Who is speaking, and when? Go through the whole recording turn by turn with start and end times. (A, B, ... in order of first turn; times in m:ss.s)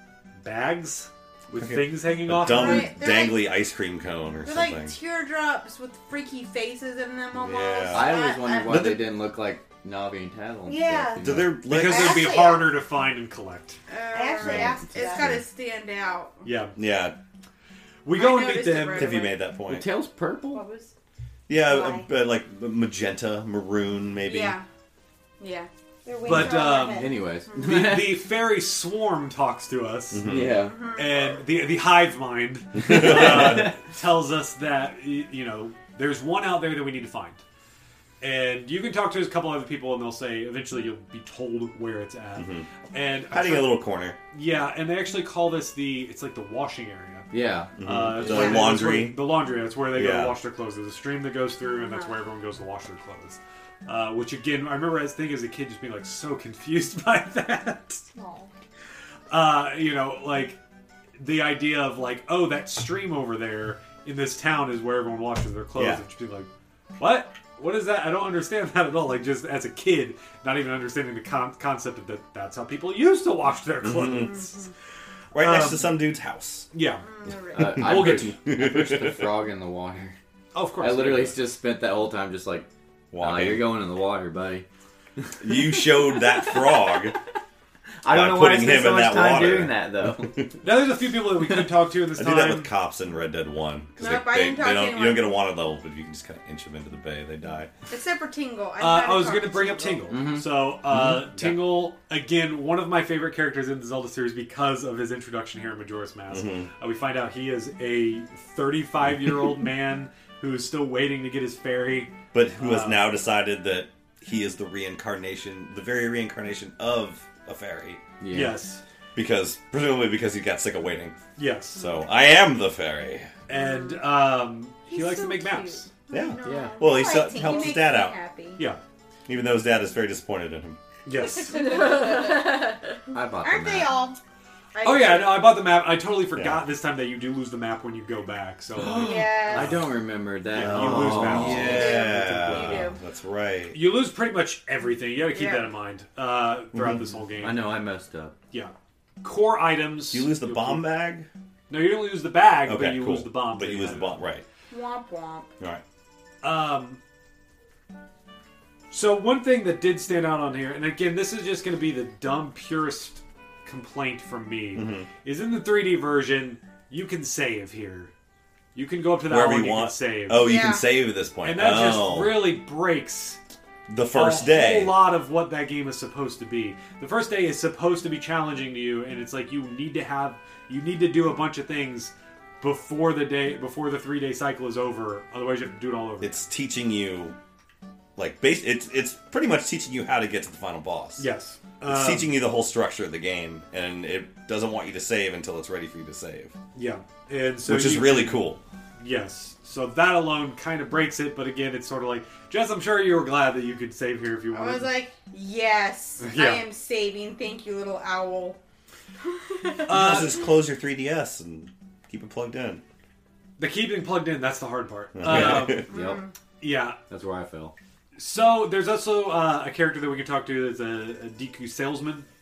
0:00.4-0:02.9 A
0:01.5-0:05.0 B
0:02.4-0:03.5 C
0:04.4-0:08.9 C
0:07.4-0:09.1 B
0:07.9-0:11.5 D
0:10.7-0:12.7 E
0:11.2-0:12.3 B
0:11.7-0:13.8 A
0:13.9-0:16.5 C
0:14.1-0:15.4 E
0:14.5-0:15.4 D
0:16.4-0:16.8 A
0:16.8-0:17.2 B
0:18.0-0:19.2 A
0:18.1-0:19.4 C
0:18.9-0:19.9 B
0:19.7-0:20.6 D
0:20.5-0:20.9 C
0:21.5-0:24.6 B
0:21.5-0:22.1 E
0:24.2-0:24.7 C
0:25.4-0:25.7 C
0:26.0-0:27.2 E
0:26.2-0:37.4 A
0:26.3-0:28.3 D
0:27.5-0:27.8 C
0:30.1-0:30.7 B
0:30.2-0:30.8 D
0:30.6-0:31.3 C
0:32.8-0:33.7 B
0:32.9-0:33.7 D
0:38.2-0:43.8 A
0:42.4-0:42.7 B
0:43.3-0:44.2 B
0:44.3-0:58.0 A
0:47.3-0:47.7 D
0:47.8-0:49.3 B
0:48.3-0:48.7 C
0:49.9-0:50.4 B
0:51.8-0:52.1 C
0:58.2-0:58.5 E
0:59.3-1:00.6 A
1:01.2-1:06.5 A
1:05.8-1:06.0 B
1:07.0-1:14.6 A
1:13.8-1:14.5 B
1:14.3-1:14.7 C
1:15.3-1:16.7 B
1:15.4-1:16.0 A
1:16.7-1:18.4 A
1:17.0-1:17.8 C
1:17.5-1:20.2 D
1:17.6-1:19.3 B
1:20.5-1:21.4 A
1:20.8-1:22.7 D
1:23.1-1:23.8 B
1:23.2-1:24.6 D
1:25.4-1:27.2 B
1:28.0-1:30.4 D
1:28.1-1:30.5 B
1:30.6-1:32.7 A
1:32.2-1:37.7 B
1:34.0-1:35.4 C
1:37.9-1:40.1 C
1:38.8-1:53.1 A
1:40.1-1:41.6 D
1:40.9-1:41.2 B
1:46.3-1:46.7 B
1:52.3-1:58.0 B
1:58.2-1:58.6 D
1:58.3-1:58.8 A
1:59.2-2:01.2 B
2:01.4-2:01.8 A
2:01.7-2:03.3 B
2:03.5-2:05.9 A
2:03.5-2:04.0 C
2:04.9-2:08.6 C
2:06.1-2:08.2 B
2:06.4-2:06.8 D
2:06.8-2:07.4 E
2:09.3-2:10.8 B
2:11.1-2:11.8 A
2:11.4-2:13.0 C
2:11.5-2:12.5 E
2:13.1-2:14.0 D
2:13.4-2:14.2 E
2:14.8-2:15.6 C
2:14.8-2:19.9 A
2:16.3-2:16.6 B
2:18.8-2:22.8 D
2:18.9-2:19.8 C
2:20.5-2:22.8 A
2:20.6-2:23.8 B
2:21.5-2:23.0 C
2:23.7-2:27.7 A
2:25.3-2:25.7 C
2:26.7-2:27.0 B
2:27.4-2:28.4 D
2:28.5-2:30.9 A
2:30.1-2:31.3 B
2:31.7-2:34.2 A
2:32.6-2:34.4 B
2:34.7-2:35.5 C
2:36.4-2:37.0 A
2:38.9-2:48.1 A
2:44.7-2:45.1 B
2:48.8-2:50.6 A
2:49.3-2:52.5 B
2:50.3-2:50.9 C
2:51.4-2:53.4 A
2:53.9-2:55.0 B
2:54.1-3:06.5 A
3:06.2-3:07.4 B
3:08.2-3:11.3 B
3:11.2-3:12.4 A
3:11.8-3:16.6 B
3:16.8-3:18.5 A
3:17.6-3:18.6 B
3:19.0-3:24.9 A
3:24.5-3:28.6 C
3:26.2-3:26.6 A
3:29.3-3:30.4 C
3:29.9-3:30.4 A
3:29.9-3:32.8 B
3:33.6-3:35.9 A
3:35.2-3:35.9 B
3:35.3-3:36.2 D
3:35.9-3:36.3 C
3:36.6-3:37.0 A
3:37.1-3:37.7 D
3:38.2-3:42.3 A